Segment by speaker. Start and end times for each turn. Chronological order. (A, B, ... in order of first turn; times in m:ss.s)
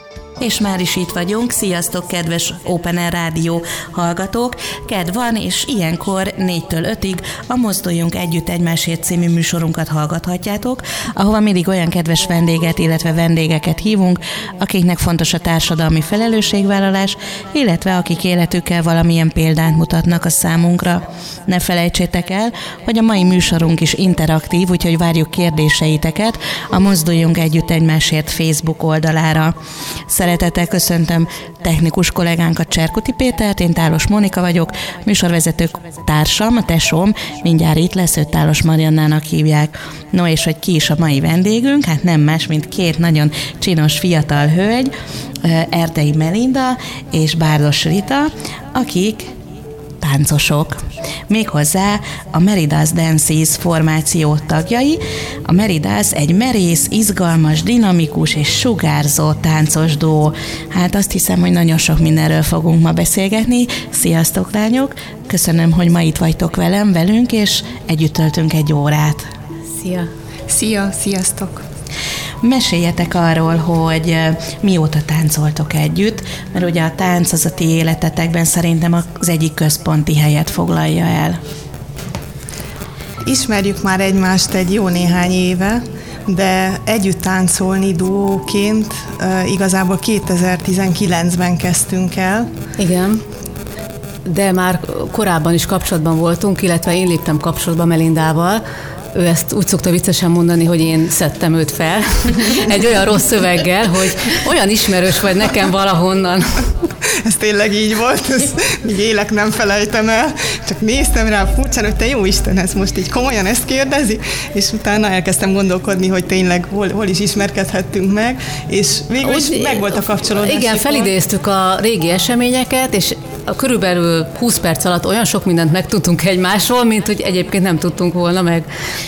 0:00.4-0:29.5 A
0:30.1-0:49.3 A
0:50.0-1:09.3 A
1:09.7-1:10.1 B
1:10.5-1:11.6 C
1:12.4-1:21.4 A
1:23.2-1:32.5 C
1:32.8-1:33.2 B
1:34.2-1:38.6 B
1:39.1-1:46.7 B
1:47.2-2:01.1 C
1:59.2-2:08.7 B